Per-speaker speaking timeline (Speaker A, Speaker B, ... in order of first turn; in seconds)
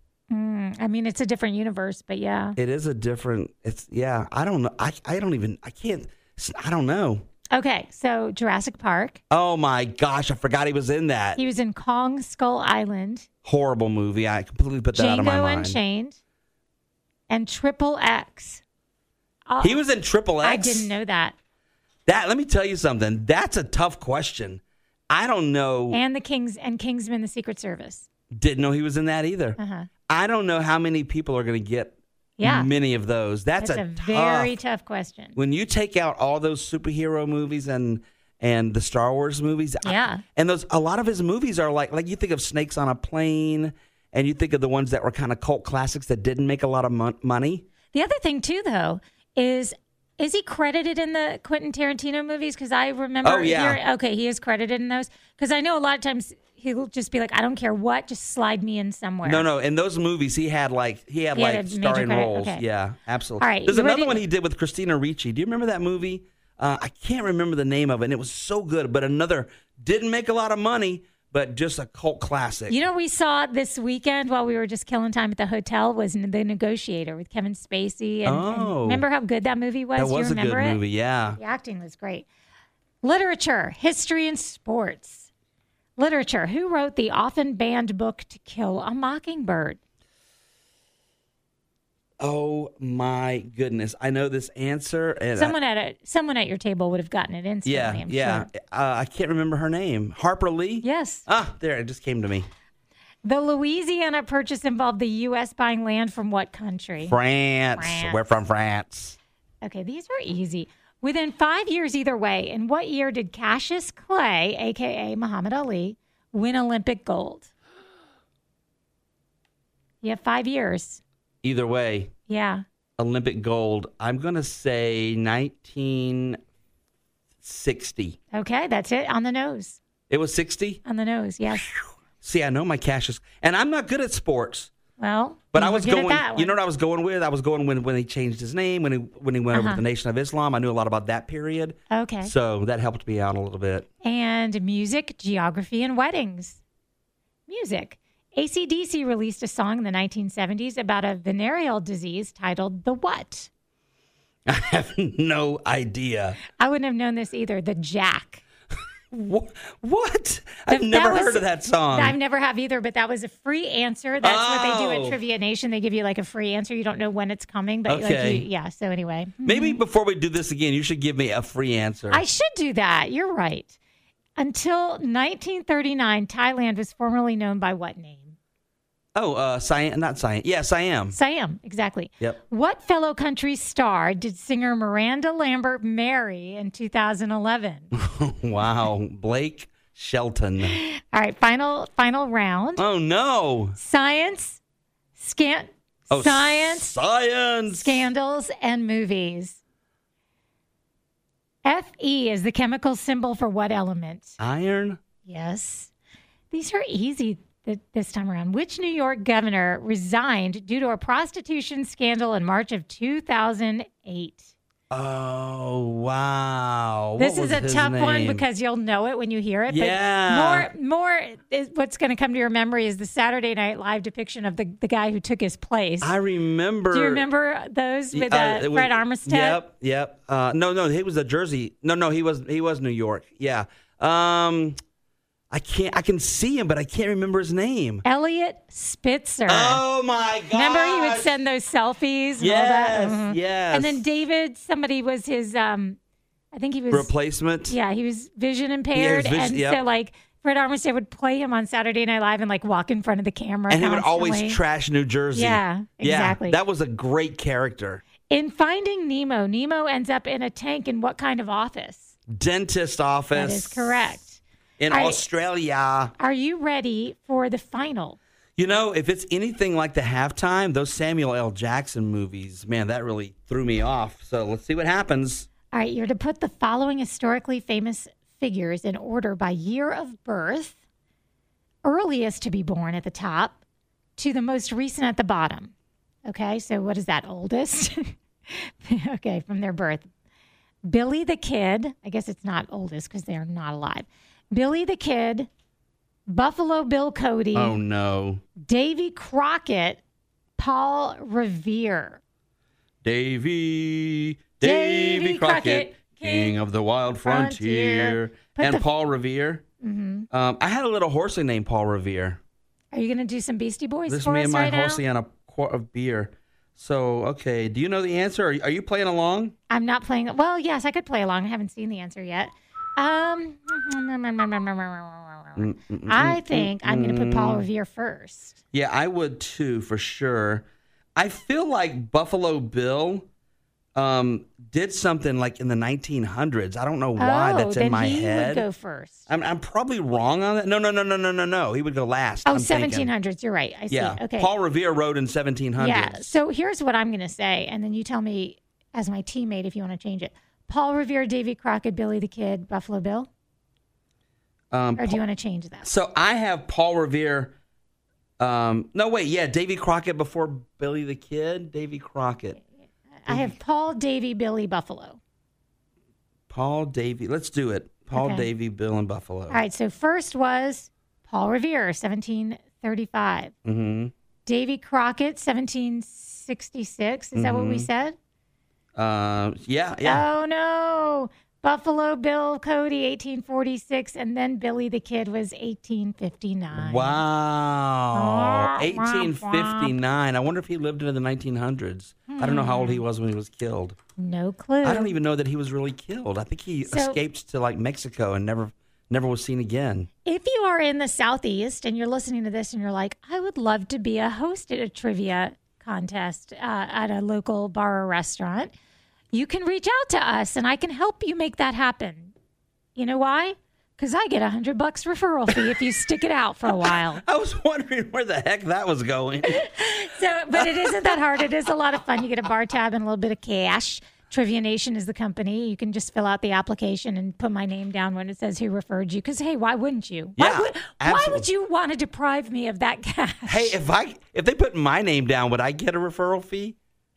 Speaker A: 0.3-2.6, 7.5-9.2, 11.4-13.3, 14.9-16.2, 17.3-18.6, 19.5-19.8, 20.4-21.4, 25.9-28.1, 29.6-29.9, 32.4-32.7, 33.6-35.4, 39.8-40.2, 47.9-59.5, 61.3-62.6, 63.4-64.2, 72.7-80.8, 81.4-82.3, 83.0-85.3, 86.0-89.8, 95.3-98.5, 100.8-101.2, 103.2-107.2, 107.8-108.2, 109.6-117.5, 120.0-121.0, 122.3-122.6, 128.3-129.8, 130.8-131.7, 135.0-136.6, 139.5-139.8, 141.9-142.3, 144.0-146.6, 147.5-153.5, 156.6-158.4, 160.7-169.8, 172.1-173.8, 174.4-178.4, 181.1-187.9, 190.6-192.8, 193.8-194.6, 195.2-197.0, 197.7-199.6, 201.6-204.4, 205.2-205.9, 206.5-214.5, 217.2-226.1, 226.9-229.6, 238.0-239.8, 240.5-246.0, 246.5-247.1, 247.7-254.6, 255.3-256.6, 258.3-262.1, 263.3-265.2, 266.2-268.2, 275.7-280.8, 281.8-283.6, 284.2-285.7, 286.2-290.1, 290.9-295.5, 296.3-297.8, 298.6-300.0, 300.6-302.2, 304.6-306.6, 307.2-308.9, 309.8-310.3, 312.9-315.0, 319.7-328.6, 337.2-339.2, 342.4-344.5, 345.8-353.3, 355.0-355.9, 363.2-365.2, 368.1-368.5, 369.5-373.5, 374.5-378.2, 380.0-387.2, 388.1-389.9, 392.3-393.0, 394.2-395.1, 396.9-397.2, 400.2-408.7, 409.3-412.3, 413.0-417.2, 419.5-433.8
Speaker B: 2.6-7.2, 9.3-11.4, 13.4-15.8, 19.6-20.9, 22.1-26.0, 28.4-29.6, 30.1-34.6, 35.4-47.7, 53.2-53.8, 59.2-72.8, 78.2-79.0, 80.0-81.4, 92.2-95.5, 97.6-102.5, 107.0-109.2, 121.4-122.1, 123.0-126.4, 127.4-128.2, 130.1-130.8, 132.2-134.7, 135.5-143.9, 154.5-156.4, 159.1-162.2, 164.2-165.2, 167.9-168.5, 169.4-172.2, 179.1-181.2, 187.9-190.8, 192.8-193.8, 196.1-198.0, 204.4-205.0, 214.9-218.4, 219.7-220.7, 226.0-227.2, 228.1-234.8, 235.5-238.0, 239.5-241.3, 242.4-244.0, 246.9-247.8, 248.9-249.8, 253.7-258.0, 262.3-264.1, 264.8-266.1, 268.6-275.5, 297.5-298.4, 303.0-309.6, 310.3-312.4, 314.1-319.5, 325.6-327.6, 328.7-330.6, 331.1-333.3, 334.0-338.6, 339.3-343.1, 343.9-346.4, 354.7-355.2, 355.8-357.5, 358.4-362.6, 366.5-369.6, 373.6-374.1, 377.4-377.9, 379.0-380.2, 386.7-394.0, 394.8-400.1, 416.7-419.6, 420.6-421.2, 430.4-431.5, 433.5-436.8